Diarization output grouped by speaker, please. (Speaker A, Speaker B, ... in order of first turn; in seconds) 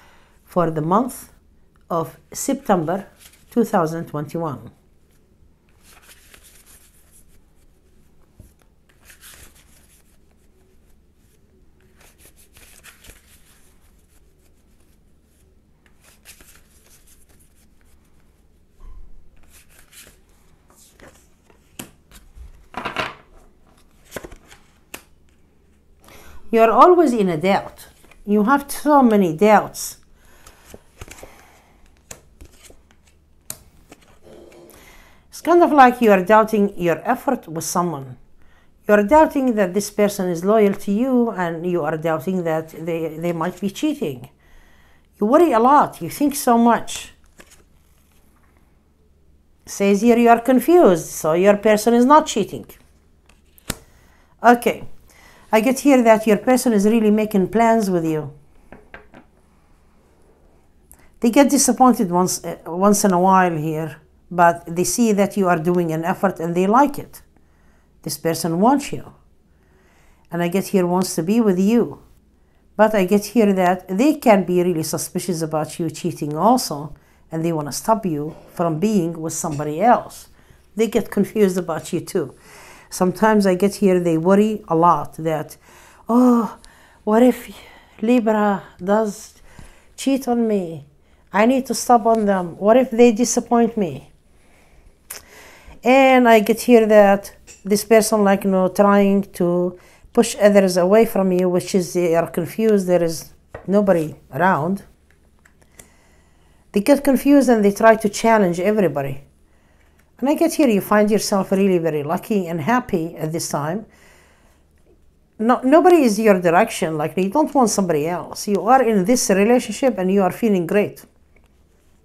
Speaker A: 0.4-1.3, 1.9-4.7, 26.5-30.0, 35.3-38.1, 38.9-44.3, 45.2-47.1, 49.6-52.8, 54.4-54.9, 55.5-58.3, 61.2-67.2, 68.0-69.1, 70.3-72.0, 72.8-82.3, 82.9-89.4, 90.0-94.1, 95.8-104.8, 106.7-109.2, 110.2-113.8, 115.4-121.1